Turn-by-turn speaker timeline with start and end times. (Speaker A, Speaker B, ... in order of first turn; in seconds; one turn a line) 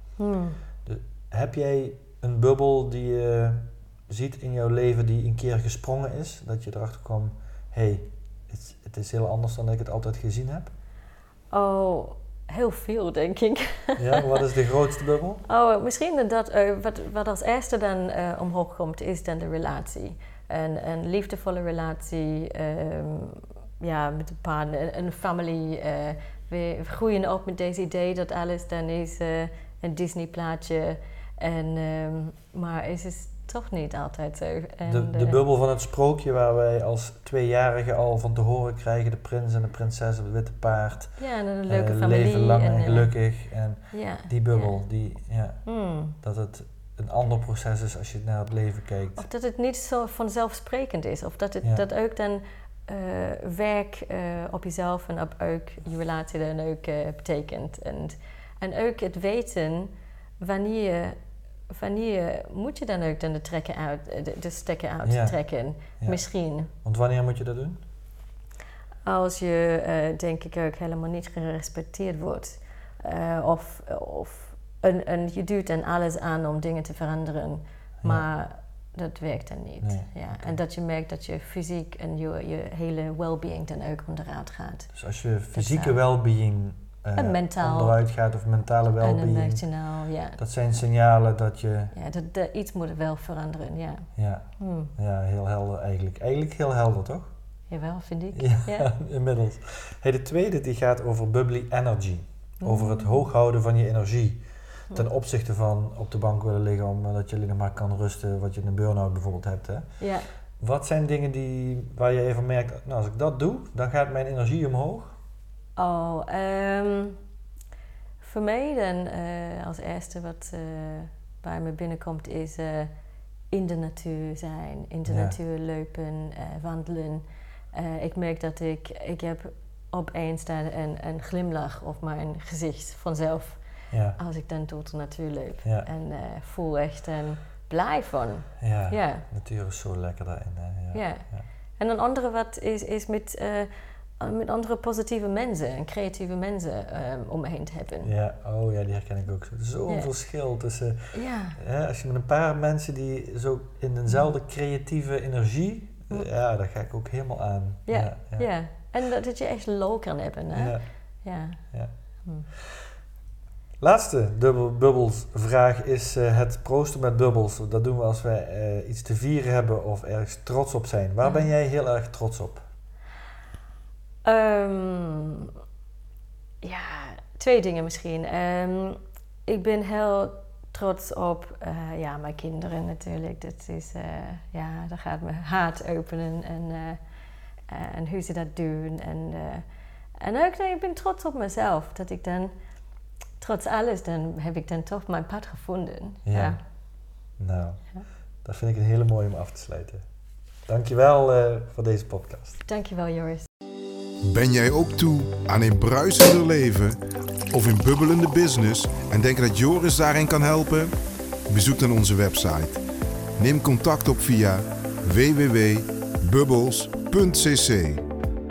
Speaker A: 0.2-0.6
Speaker B: 0.8-10.7
Speaker A: 11.5-14.4
Speaker B: 14.0-15.4
Speaker A: 15.4-35.4
Speaker B: 34.9-45.6
Speaker A: 41.2-43.1
Speaker A: 43.9-44.8
Speaker A: 45.6-46.1
Speaker B: 46.2-49.2
Speaker A: 49.1-61.2
Speaker A: 61.7-66.7
Speaker B: 65.0-65.4
Speaker B: 66.0-67.8
Speaker A: 69.0-84.9
Speaker B: 78.0-78.3
Speaker B: 79.8-80.5
Speaker B: 84.9-89.6
Speaker A: 85.5-86.0
Speaker A: 87.2-88.0
Speaker A: 89.0-90.4
Speaker B: 90.4-91.9
Speaker A: 91.9-94.1
Speaker B: 94.2-97.3
Speaker A: 94.6-94.9
Speaker A: 97.7-98.9
Speaker B: 98.3-109.9
Speaker A: 102.6-103.2
Speaker A: 110.0-110.3
Speaker B: 110.6-115.1
Speaker A: 115.8-117.2
Speaker A: 118.2-122.9
Speaker A: 123.5-133.6
Speaker B: 125.1-125.3
Speaker B: 133.9-134.2
Speaker A: 134.2-139.2
Speaker B: 138.6-141.4
Speaker A: 140.9-141.2
Speaker A: 141.8-148.1
Speaker B: 148.0-158.5
Speaker A: 151.1-151.6
Speaker A: 157.9-161.6
Speaker B: 160.5-160.8
Speaker B: 162.5-162.9
Speaker B: 163.8-172.6
Speaker A: 171.2-171.5
Speaker A: 174.2-175.5
Speaker A: 176.6-187.0
Speaker A: 187.7-189.6
Speaker A: 190.2-192.5
Speaker A: 193.4-196.6
Speaker B: 196.2-196.6
Speaker B: 197.4-197.8
Speaker B: 198.4-200.0
Speaker B: 200.7-202.6
Speaker A: 202.7-203.5
Speaker C: 204.2-207.0
Speaker C: 207.5-210.9
Speaker C: 211.5-212.8
Speaker C: 213.4-218.1